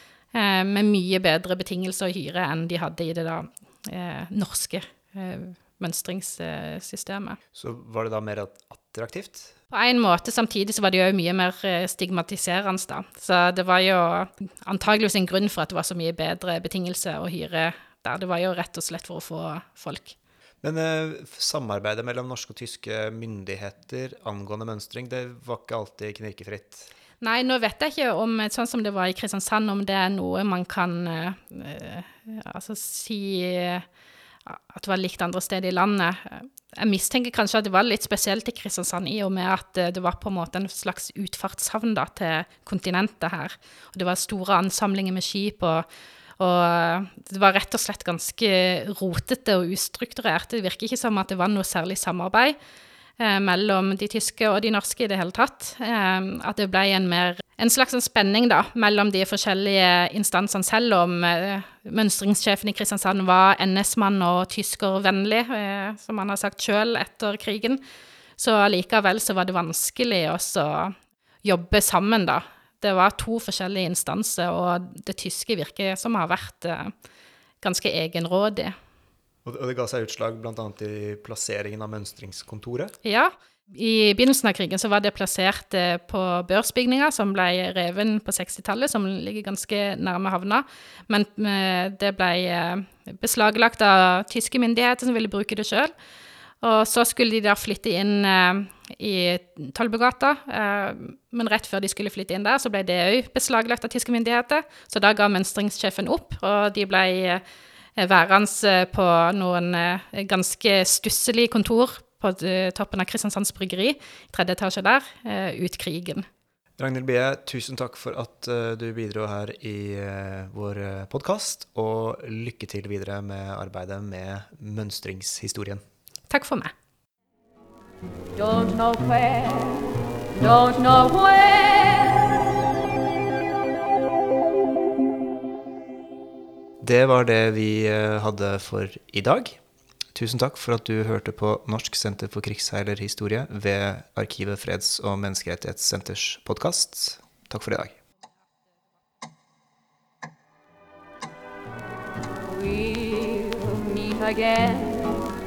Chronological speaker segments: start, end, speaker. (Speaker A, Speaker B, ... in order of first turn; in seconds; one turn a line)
Speaker A: 0.3-7.4
Speaker B: 7.5-9.5
Speaker A: 9.7-20.2
Speaker B: 20.6-26.9
Speaker A: 27.2-33.9
Speaker A: 34.5-45.9
Speaker A: 46.4-52.6
Speaker A: 53.2-67.8
Speaker A: 68.4-76.9
Speaker A: 77.6-78.7
Speaker B: 79.5-82.9
Speaker A: 83.0-95.9
Speaker A: 96.6-107.4
Speaker A: 108.0-116.2
Speaker B: 116.8-125.8
Speaker A: 126.3-126.7
Speaker C: 128.3-132.4
Speaker B: 136.8-139.6
Speaker B: 140.1-148.0
Speaker C: 152.5-155.2